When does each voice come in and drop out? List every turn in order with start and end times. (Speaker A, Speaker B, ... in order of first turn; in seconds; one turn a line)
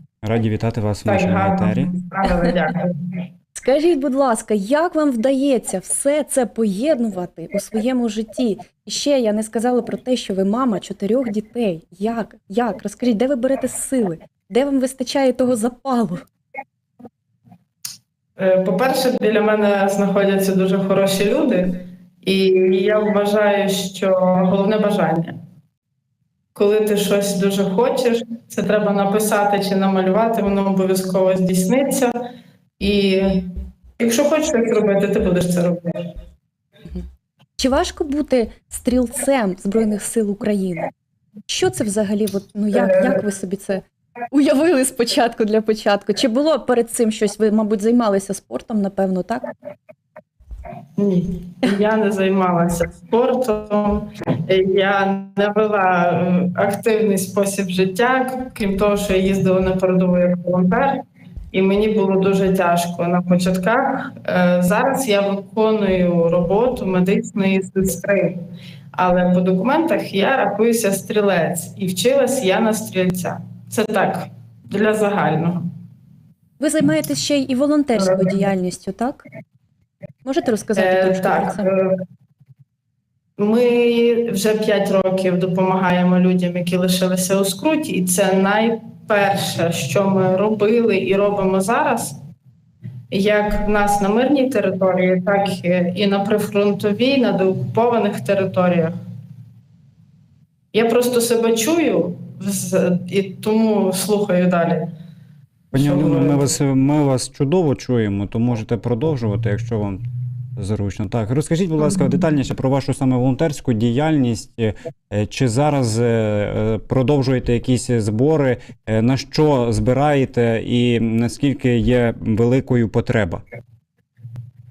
Speaker A: 0.2-1.9
Speaker B: 1.0-2.9
Speaker C: 3.5-16.2
Speaker B: 18.4-25.4
Speaker B: 26.5-32.1
Speaker B: 32.8-35.8
Speaker C: 37.6-40.9
Speaker C: 41.5-49.5
Speaker B: 51.0-61.0
Speaker B: 61.5-68.4
Speaker B: 68.9-75.7
Speaker C: 76.6-79.2
Speaker C: 80.2-81.7
Speaker B: 80.8-81.9
Speaker B: 83.4-92.2
Speaker B: 93.1-99.0
Speaker B: 100.7-104.9
Speaker B: 105.7-106.5
Speaker A: 105.7-110.0
Speaker A: 110.6-123.4